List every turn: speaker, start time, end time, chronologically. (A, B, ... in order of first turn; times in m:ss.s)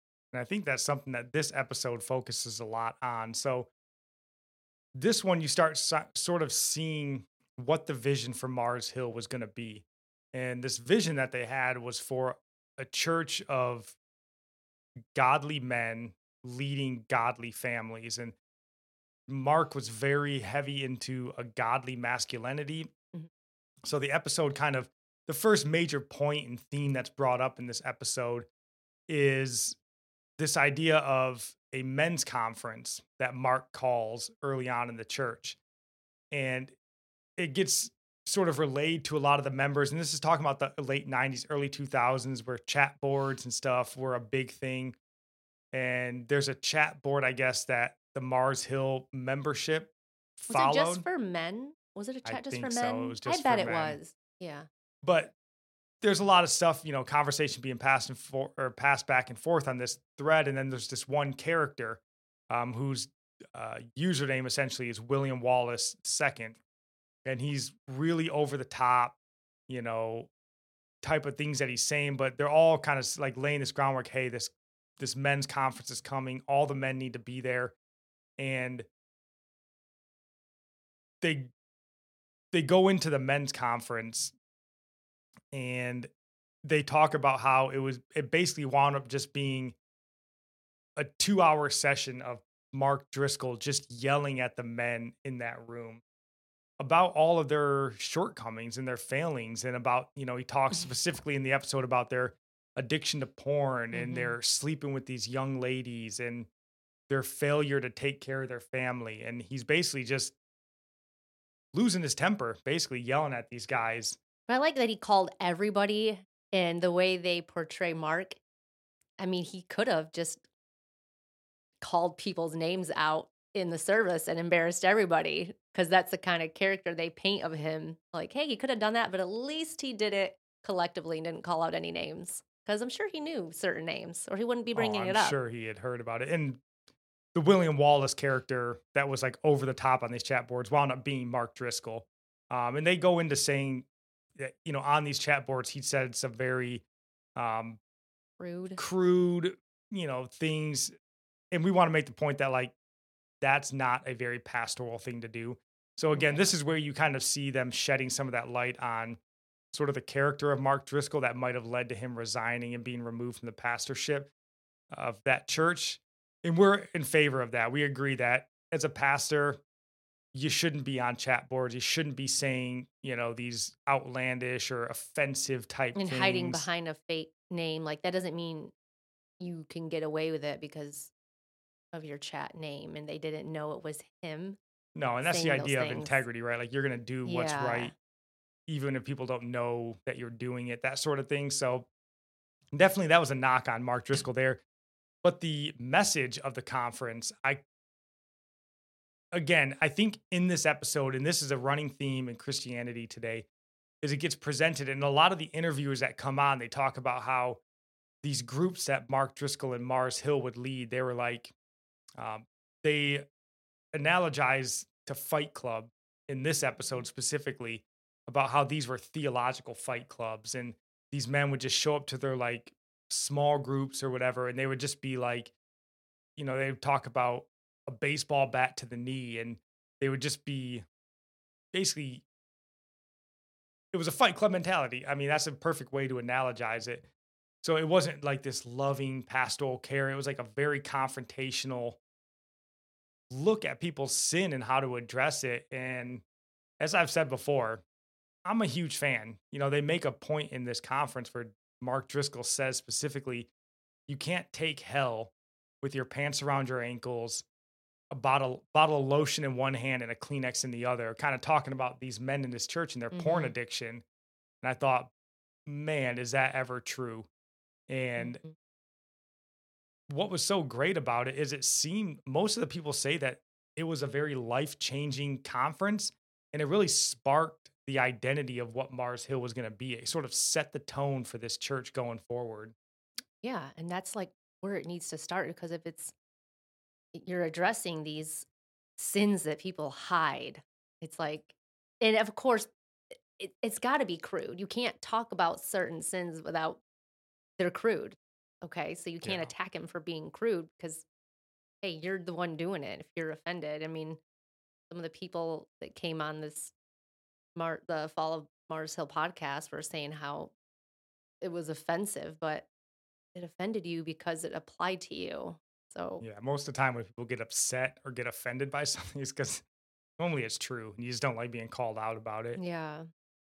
0:00.3-0:03.7 A
0:04.9-0:14.0 A
0:15.1-0:18.3 A
0:19.3-0:22.9 A
0:23.8-0:28.5 A
0:29.1-0:29.8 A
0:30.4-0:35.6 A
0:36.3-0:36.7 A
0:37.4-0:45.0 A
0:45.7-0:51.0 A
0:50.5-0:54.7 B
0:52.2-0:54.0 A
0:55.0-0:55.3 A
0:56.0-1:06.6 A
1:07.2-1:09.2 A
1:09.7-1:10.3 A
1:11.0-1:17.7 A
1:18.4-1:18.8 A
1:21.2-1:21.5 A
1:22.5-1:24.3 A
1:25.5-1:26.1 A
1:26.6-1:29.7 A
1:31.0-1:36.0 A
1:36.8-1:46.5 A
1:43.9-1:44.4 B
1:47.1-1:50.3 A
1:51.7-1:54.2 A
1:54.5-1:58.4 B
1:59.2-2:00.4 B
2:01.8-2:15.4 B
2:14.7-2:16.6 A
2:17.3-2:23.8 A
2:24.4-2:26.8 A
2:27.4-2:27.8 A
2:28.4-2:28.8 B
2:28.8-2:30.9 A
2:31.5-2:32.7 A
2:33.4-2:39.2 A
2:36.1-2:36.5 B
2:39.7-2:44.3 A
2:44.9-2:49.6 A
2:50.3-2:56.6 A
2:55.9-2:58.7 B
2:59.4-3:01.1 B
3:01.9-3:04.6 B
3:04.9-3:07.9 A
3:05.2-3:06.2 B
3:07.2-3:07.9 B
3:08.7-3:11.9 A
3:12.7-3:14.6 A
3:15.2-3:17.6 A
3:19.3-3:23.4 A
3:24.0-3:27.6 A
3:28.2-3:31.5 A
3:32.2-3:33.3 A
3:33.9-3:45.5 A
3:46.4-3:50.8 A
3:51.7-3:52.2 A
3:53.9-3:57.0 A
3:57.6-4:02.0 A
4:03.3-4:06.2 A
4:06.8-4:07.8 A
4:08.4-4:13.5 A
4:14.1-4:17.4 A
4:18.1-4:24.0 A
4:23.1-4:23.5 B
4:24.6-4:25.1 A
4:25.6-4:27.3 A
4:27.9-4:28.4 A
4:28.2-4:28.5 B
4:30.1-4:42.7 A
4:43.4-4:46.1 B
4:47.1-4:52.7 B
4:53.4-4:56.8 B
4:57.6-5:01.0 B
4:59.2-4:59.5 A
5:01.8-5:04.2 B
5:04.9-5:06.7 B
5:07.6-5:10.5 B
5:11.4-5:12.6 B
5:13.3-5:16.2 B
5:16.2-5:19.6 A
5:20.2-5:22.6 A
5:22.5-5:23.1 B